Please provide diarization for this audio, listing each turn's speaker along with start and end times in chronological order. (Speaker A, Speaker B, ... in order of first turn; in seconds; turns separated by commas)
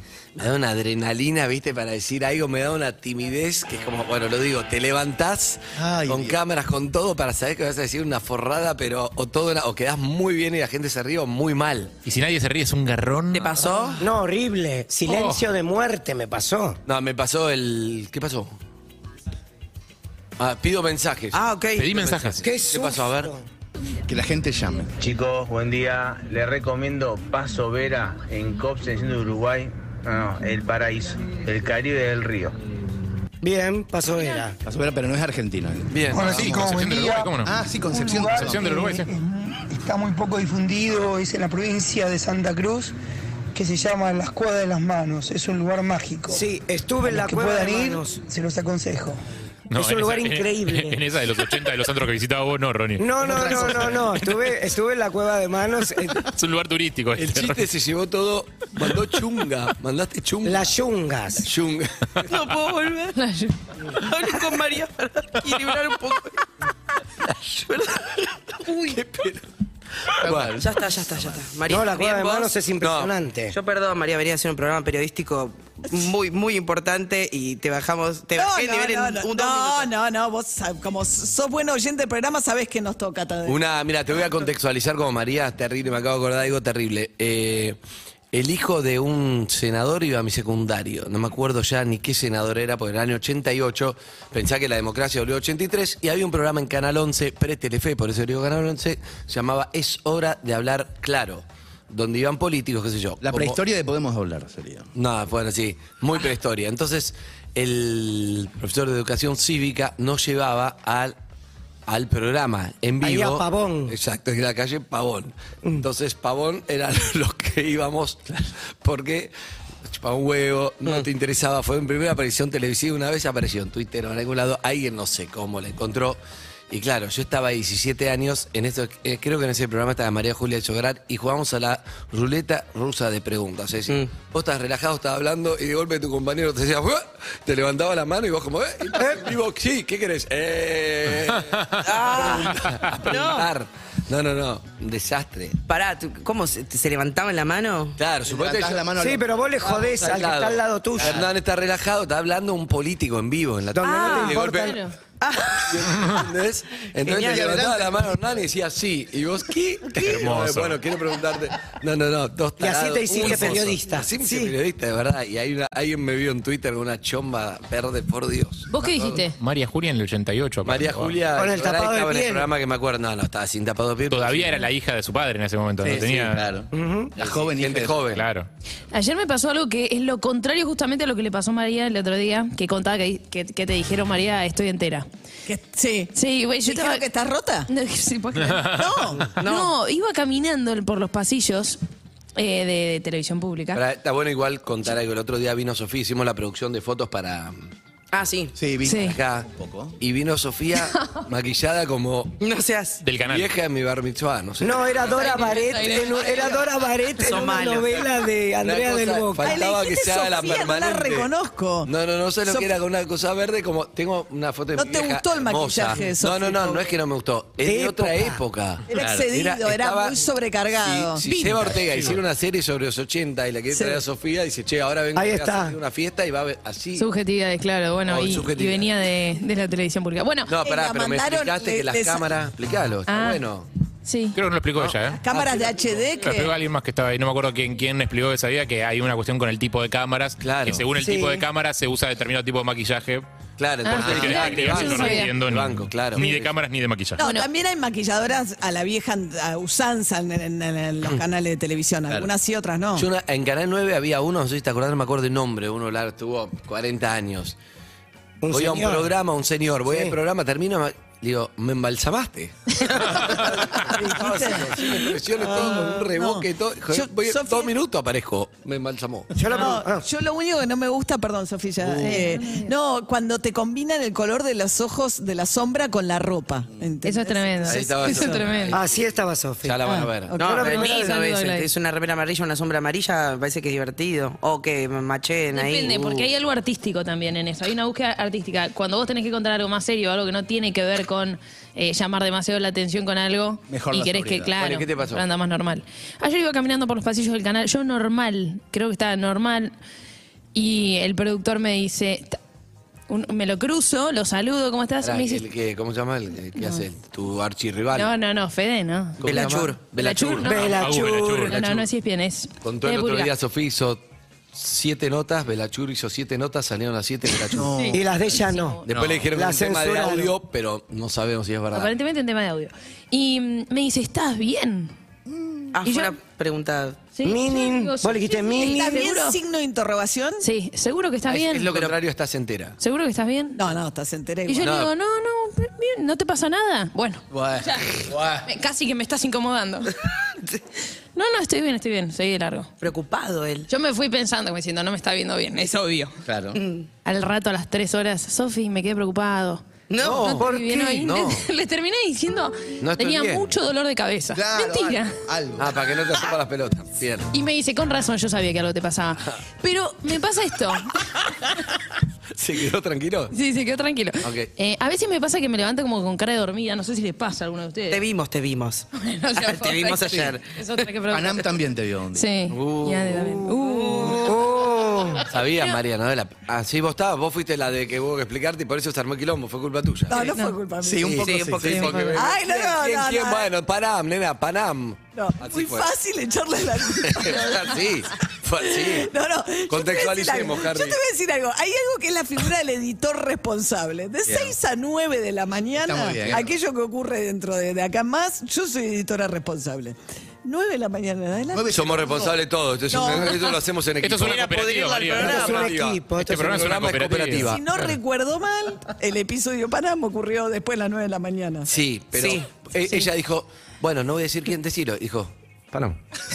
Speaker A: 0.4-11.9, Speaker B: 5.8-6.4, Speaker C: 12.1-13.6, Speaker D: 13.3-14.1, Speaker E: 14.0-16.8, Speaker C: 15.1-15.5, Speaker A: 16.9-18.5, Speaker A: 20.4-23.3, Speaker D: 21.3-21.9, Speaker C: 21.8-22.5, Speaker E: 22.4-23.4, Speaker B: 24.1-24.9, Speaker F: 25.0-32.5, Speaker E: 33.4-34.6, Speaker B: 34.6-36.6, Speaker A: 35.9-36.6, Speaker G: 36.1-37.3, Speaker C: 36.3-37.5, Speaker B: 37.4-38.7, Speaker G: 37.9-42.9, Speaker C: 38.4-39.1, Speaker G: 43.5-46.4, Speaker E: 46.3-48.2, Speaker G: 47.0-49.2, Speaker C: 49.7-53.1, Speaker E: 49.7-51.0, Speaker E: 53.0-56.3, Speaker B: 53.2-54.1, Speaker C: 56.3-57.7, Speaker A: 57.2-60.7, Speaker E: 60.5-61.5, Speaker A: 61.4-62.4, Speaker D: 62.2-63.2, Speaker H: 63.1-63.5, Speaker D: 63.9-66.4, Speaker D: 67.6-69.0, Speaker A: 68.9-69.4, Speaker A: 70.2-70.6, Speaker B: 70.2-70.7, Speaker D: 70.6-72.5, Speaker E: 71.7-73.6, Speaker A: 72.8-73.1, Speaker D: 73.5-79.9, Speaker I: 78.3-83.6, Speaker A: 83.5-87.8, Speaker A: 88.3-103.6, Speaker B: 103.2-104.9, Speaker A: 105.0-111.2, Speaker A: 111.9-119.3, Speaker E: 113.0-114.0, Speaker A: 119.9-145.6, Speaker E: 139.0-139.3, Speaker D: 141.7-143.5, Speaker D: 145.7-148.0, Speaker A: 148.0-148.9, Speaker B: 148.3-149.3, Speaker E: 149.0-151.2, Speaker A: 149.6-154.8, Speaker B: 151.0-151.3, Speaker E: 153.8-154.8, Speaker D: 153.8-154.5, Speaker H: 154.6-154.9, Speaker D: 155.2-156.1, Speaker A: 155.7-169.1, Speaker D: 157.0-157.5, Speaker B: 157.1-158.3, Speaker C: 159.9-160.8, Speaker E: 162.6-164.6, Speaker H: 168.7-169.3, Speaker C: 169.4-171.2, Speaker A: 170.6-174.7, Speaker E: 171.3-172.5, Speaker C: 174.1-176.4, Speaker B: 175.8-178.0, Speaker E: 176.7-177.1, Speaker A: 177.2-178.2, Speaker C: 178.1-178.5, Speaker H: 178.9-185.1, Speaker I: 185.5-186.1, Speaker H: 186.1-187.0, Speaker I: 186.7-187.7, Speaker H: 187.7-188.8, Speaker I: 188.7-189.3, Speaker D: 189.4-189.7, Speaker H: 189.4-191.8, Speaker H: 192.4-193.8, Speaker A: 193.7-197.7, Speaker D: 198.1-198.5, Speaker B: 198.6-200.0, Speaker H: 198.8-199.2, Speaker A: 198.9-199.5, Speaker A: 200.0-202.4, Speaker D: 202.4-203.0, Speaker C: 203.0-203.5, Speaker A: 203.2-205.1, Speaker E: 204.6-209.6, Speaker H: 205.1-206.6, Speaker D: 207.2-208.2, Speaker A: 208.6-211.3, Speaker I: 209.4-211.9, Speaker A: 211.9-220.3, Speaker I: 212.5-212.7, Speaker I: 214.8-216.8, Speaker E: 217.6-218.4, Speaker I: 218.9-221.8, Speaker B: 218.9-219.3, Speaker A: 220.8-227.1, Speaker I: 223.7-224.0, Speaker E: 225.2-225.8, Speaker H: 227.0-230.5, Speaker A: 228.1-228.9, Speaker A: 230.5-233.7, Speaker I: 230.6-232.4, Speaker H: 233.1-233.4, Speaker H: 234.1-234.4, Speaker C: 234.3-235.2, Speaker A: 234.8-236.1, Speaker I: 235.1-236.6, Speaker C: 236.2-243.3, Speaker A: 240.4-240.9, Speaker E: 241.0-241.5, Speaker A: 243.6-246.5, Speaker H: 243.8-245.3, Speaker C: 243.9-247.2, Speaker I: 247.2-253.1, Speaker H: 247.2-247.5, Speaker A: 253.0-257.6, Speaker E: 258.4-259.1, Speaker A: 258.5-269.3, Speaker E: 259.9-260.2, Speaker I: 263.3-267.7, Speaker E: 264.0-264.5, Speaker E: 265.4-266.1, Speaker E: 269.3-270.1, Speaker I: 269.5-278.5, Speaker A: 271.8-272.3, Speaker H: 272.0-272.7, Speaker H: 277.0-278.8, Speaker A: 277.7-279.1, Speaker E: 278.7-281.1, Speaker A: 279.6-280.4, Speaker I: 279.9-280.5, Speaker D: 280.4-286.0, Speaker H: 280.6-281.7, Speaker H: 285.5-299.7, Speaker B: 293.7-294.5, Speaker A: 294.6-295.2, Speaker H: 300.6-302.4, Speaker H: 303.1-305.4, Speaker A: 305.0-308.1, Speaker H: 306.6-306.8, Speaker H: 307.9-309.3, Speaker A: 309.2-310.6, Speaker D: 309.2-309.8, Speaker H: 309.9-313.3, Speaker E: 310.5-311.6, Speaker C: 310.7-311.8, Speaker A: 312.6-314.0, Speaker A: 314.5-317.7, Speaker B: 317.6-318.0, Speaker E: 317.9-318.8, Speaker H: 318.2-318.9, Speaker B: 318.9-319.3, Speaker A: 318.9-321.9, Speaker E: 319.3-320.3, Speaker H: 321.7-324.9, Speaker B: 325.3-325.8, Speaker D: 325.8-327.1, Speaker H: 325.8-326.2, Speaker H: 327.1-329.4, Speaker E: 327.2-329.0, Speaker I: 328.6-330.4, Speaker H: 330.4-331.8, Speaker A: 331.3-332.8, Speaker H: 332.8-333.6, Speaker I: 333.6-334.7, Speaker H: 334.5-339.9, Speaker A: 334.6-334.9, Speaker B: 337.3-338.5, Speaker H: 341.1-342.7, Speaker D: 342.8-343.7, Speaker H: 343.7-346.1, Speaker B: 346.2-346.6, Speaker D: 346.6-346.9, Speaker H: 347.1-349.7, Speaker D: 349.9-350.5, Speaker A: 350.0-351.4, Speaker H: 350.3-355.2, Speaker E: 350.4-351.0, Speaker A: 352.8-353.5, Speaker B: 354.3-355.8, Speaker A: 355.6-357.3, Speaker H: 357.3-360.9, Speaker A: 362.4-363.3, Speaker H: 363.3-368.0, Speaker A: 364.2-364.5, Speaker D: 367.9-370.8, Speaker H: 368.9-371.4, Speaker B: 371.1-372.3, Speaker H: 372.1-374.4, Speaker A: 372.5-373.4, Speaker D: 373.7-374.4, Speaker E: 374.1-375.2, Speaker A: 375.3-380.3, Speaker I: 380.1-383.5, Speaker H: 380.1-380.6, Speaker B: 380.8-382.1, Speaker A: 381.0-385.9, Speaker D: 381.1-382.3, Speaker I: 385.1-387.8, Speaker A: 387.0-389.1, Speaker I: 388.7-401.8, Speaker A: 389.7-391.0, Speaker B: 394.3-394.6, Speaker B: 395.8-396.5, Speaker B: 401.5-402.4, Speaker A: 401.7-407.8, Speaker I: 402.9-403.6, Speaker C: 404.0-405.7, Speaker D: 404.9-405.4, Speaker E: 405.1-406.7, Speaker C: 406.2-407.6, Speaker I: 407.4-411.7, Speaker A: 411.7-416.0, Speaker D: 412.1-412.5